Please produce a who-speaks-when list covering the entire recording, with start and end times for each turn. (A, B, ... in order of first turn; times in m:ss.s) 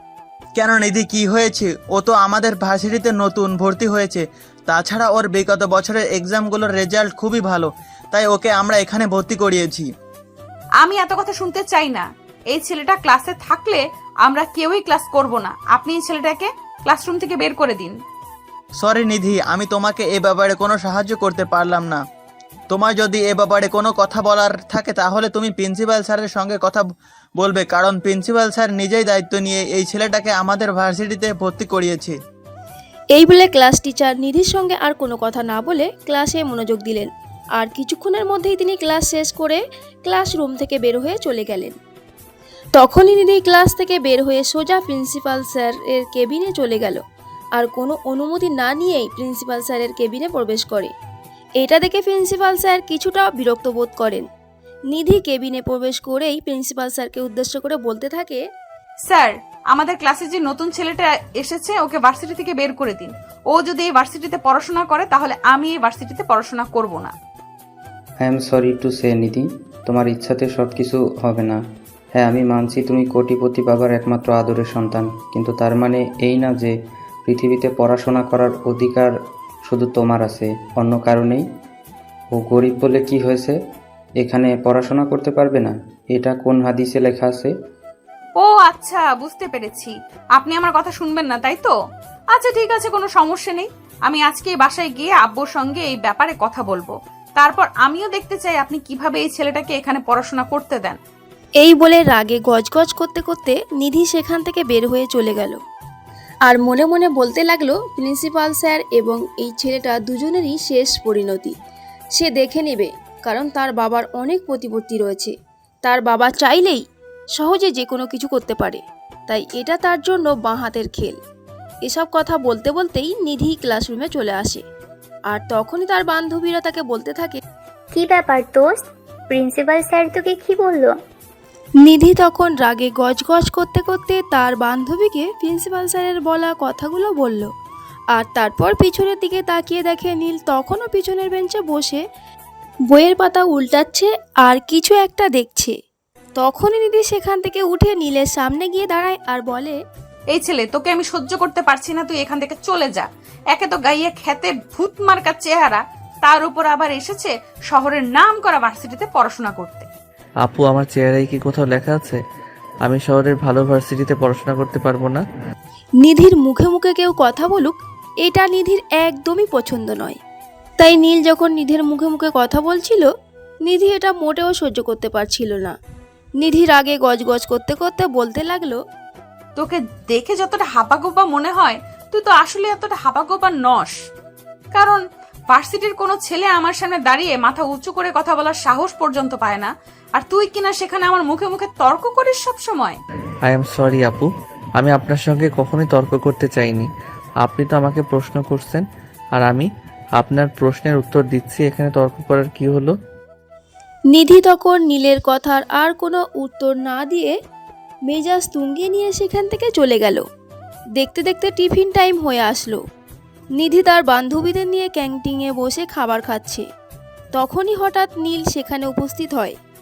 0:00.6-0:09.9 A
0:10.8-0:18.0 B
0:18.8-0:22.0 A
0:22.7-0:26.9 A
0:27.4-0:32.2 A
0:33.1-0:41.8 C
0:42.8-0:47.0 C
0:47.5-0:50.9 C
0:51.6-0:54.2 C
0:54.9-0:58.4 C
0:59.1-1:07.1 B
1:08.2-1:11.6 D
1:12.2-1:16.7 D
1:17.3-1:19.1 D
1:19.6-1:21.4 D
1:22.3-1:23.5 D
1:24.2-1:27.5 D
1:28.4-1:31.7 B
1:32.3-1:41.0 B
1:41.6-1:45.6 C
1:46.4-1:51.5 C
1:52.2-1:56.8 C
1:57.4-2:01.2 C
2:01.8-2:04.6 C
2:05.3-2:07.4 C
2:07.9-2:11.0 E
2:11.8-2:17.5 C
2:18.1-2:22.0 C
2:22.9-2:25.7 C
2:26.4-2:29.8 C
2:30.3-2:39.9 B
2:40.4-2:42.2 F
2:42.8-2:45.2 F
2:46.0-2:50.2 C
2:50.8-2:53.1 C
2:53.6-2:55.8 C
2:56.4-2:58.8 C
2:59.6-3:04.0 B
3:04.7-3:13.0 B
3:13.4-3:16.9 F
3:17.4-3:18.8 F
3:19.4-3:22.9 F
3:24.1-3:27.4 C
3:28.1-3:30.2 C
3:31.0-3:32.8 C
3:33.6-3:36.6 C
3:37.3-3:39.6 C